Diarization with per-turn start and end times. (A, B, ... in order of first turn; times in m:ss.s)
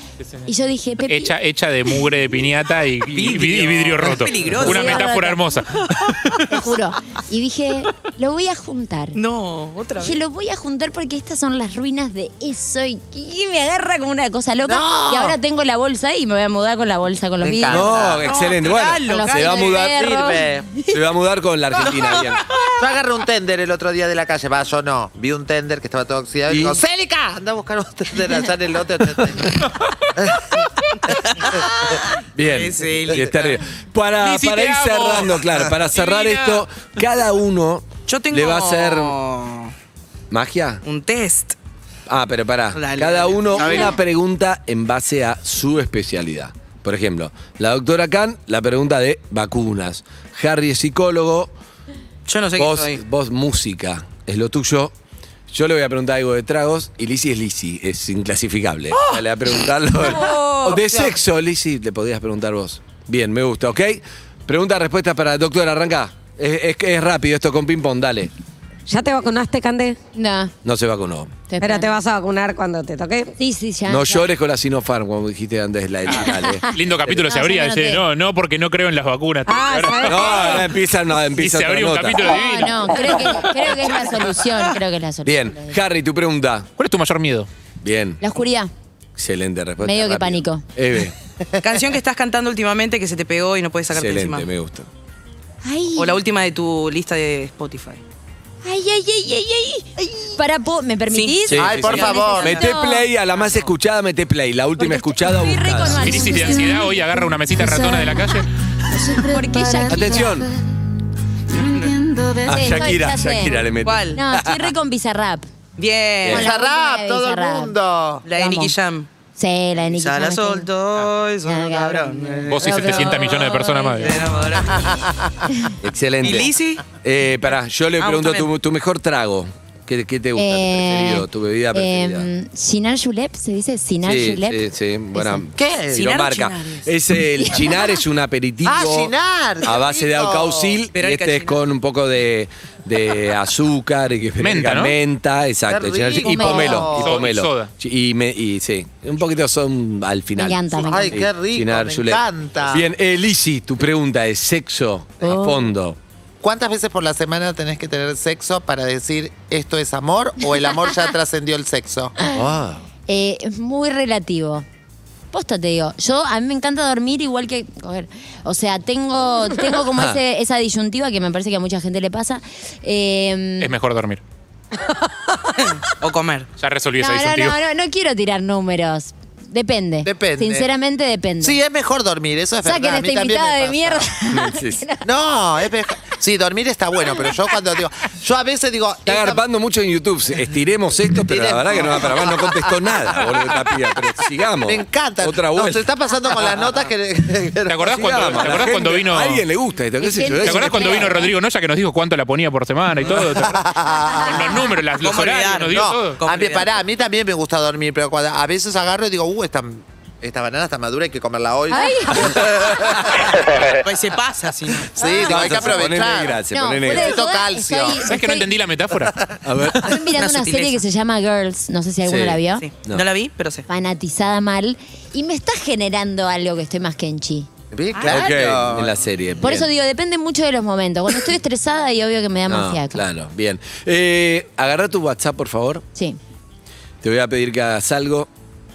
0:00.5-0:01.3 A
0:01.1-0:06.4 B
0:03.1-0:05.1 C
0:04.6-0:05.5 A
0:05.8-0:06.4 C
0:06.5-0:09.2 A
0:09.2-0:10.2 C
0:10.0-0:18.1 A
0:14.6-0:15.4 D
0:17.4-0:18.3 D
0:17.7-0:20.1 E
0:18.2-0:19.6 C
0:19.1-0:21.0 A
0:19.9-0:20.7 D
0:20.9-0:22.4 E
0:22.8-0:30.5 D
0:26.5-0:26.8 E
0:29.2-0:29.7 E
0:31.1-0:31.7 D
0:31.3-0:31.6 C
0:32.4-0:39.2 E
0:32.4-0:33.4 C
0:34.2-0:36.7 B
0:38.1-0:39.7 C
0:40.3-0:40.8 E
0:40.8-0:41.6 C
0:42.1-0:51.5 E
0:42.8-0:44.0 C
0:52.3-0:53.0 C
0:52.6-0:55.0 E
0:55.5-1:08.3 E
1:00.2-1:00.8 F
1:00.7-1:01.1 C
1:08.9-1:10.0 F
1:10.1-1:10.5 A
1:10.6-1:11.4 E
1:11.5-1:11.9 A
1:11.6-1:13.3 F
1:13.4-1:14.3 A
1:13.9-1:17.3 E
1:16.1-1:20.6 B
1:16.2-1:18.0 A
1:19.5-1:20.7 F
1:20.0-1:22.3 E
1:21.3-1:23.4 B
1:22.3-1:25.8 A
1:25.2-1:26.7 E
1:26.8-1:27.5 B
1:27.8-1:28.2 E
1:28.2-1:28.7 A
1:29.2-1:31.2 E
1:29.8-1:30.6 A
1:31.6-1:34.5 C
1:33.9-1:34.9 E
1:35.6-1:36.2 A
1:36.0-1:38.0 C
1:38.6-1:43.1 A
1:40.0-1:40.4 C
1:41.1-1:42.6 C
1:41.5-1:46.2 E
1:41.5-1:42.6 D
1:43.4-1:43.7 C
1:44.8-1:46.9 A
1:46.0-1:48.5 B
1:47.6-1:48.1 F
1:48.9-1:50.3 A
1:49.1-1:50.3 F
1:49.9-1:50.5 E
1:51.6-1:52.0 C
1:52.4-1:54.7 E
1:52.5-1:55.5 A
1:53.8-1:54.2 C
1:55.8-1:56.5 C
1:56.2-1:56.5 E
1:56.3-1:57.8 A
1:56.3-1:58.2 D
1:58.2-1:59.1 C
1:58.3-1:58.7 A
1:59.4-2:00.7 A
2:00.0-2:05.0 C
2:01.4-2:04.1 A
2:02.5-2:04.2 B
2:04.6-2:05.4 D
2:05.8-2:12.3 E
2:06.2-2:06.8 C
2:08.0-2:08.5 C
2:10.4-2:15.5 A
2:14.0-2:36.0 E
2:15.6-2:16.0 D
2:15.9-2:16.9 C
2:18.6-2:20.8 D
2:20.9-2:21.6 C
2:24.4-2:24.9 B
2:25.7-2:27.3 D
2:26.2-2:26.9 A
2:26.9-2:27.7 B
2:30.4-2:31.1 A
2:30.9-2:32.8 D
2:35.2-2:35.7 A
2:36.4-2:42.1 D
2:42.3-2:42.8 E
2:43.1-2:44.7 A
2:45.3-2:53.7 A
2:49.9-2:50.2 E
2:53.6-2:54.2 B
2:55.6-2:56.5 C
2:56.6-2:57.6 B
2:57.0-3:01.6 A
3:00.0-3:00.7 D
3:01.4-3:04.0 D
3:02.6-3:05.0 A
3:04.3-3:04.8 E
3:05.0-3:09.4 D
3:09.1-3:15.8 E
3:11.2-3:13.8 D
3:14.6-3:18.3 D
3:17.7-3:19.4 B
3:17.9-3:21.1 E
3:20.0-3:21.3 A
3:20.4-3:23.7 B
3:23.3-3:24.7 D
3:24.2-3:26.2 B
3:24.2-3:24.5 A
3:25.0-3:26.7 C
3:25.7-3:33.4 D
3:31.7-3:32.4 A
3:32.3-3:33.3 E
3:33.6-3:34.9 C
3:34.9-3:38.0 D
3:35.0-3:37.2 E
3:36.5-3:38.5 A
3:38.1-3:39.2 B
3:39.4-3:40.0 E
3:39.8-3:42.6 A
3:40.2-3:40.8 C
3:42.0-3:43.0 E
3:42.6-3:43.7 C
3:43.7-3:47.5 A
3:47.7-3:49.0 D
3:47.9-3:48.3 C
3:48.0-3:49.7 E
3:49.4-3:53.0 A
3:52.5-3:55.8 E
3:57.0-3:58.3 E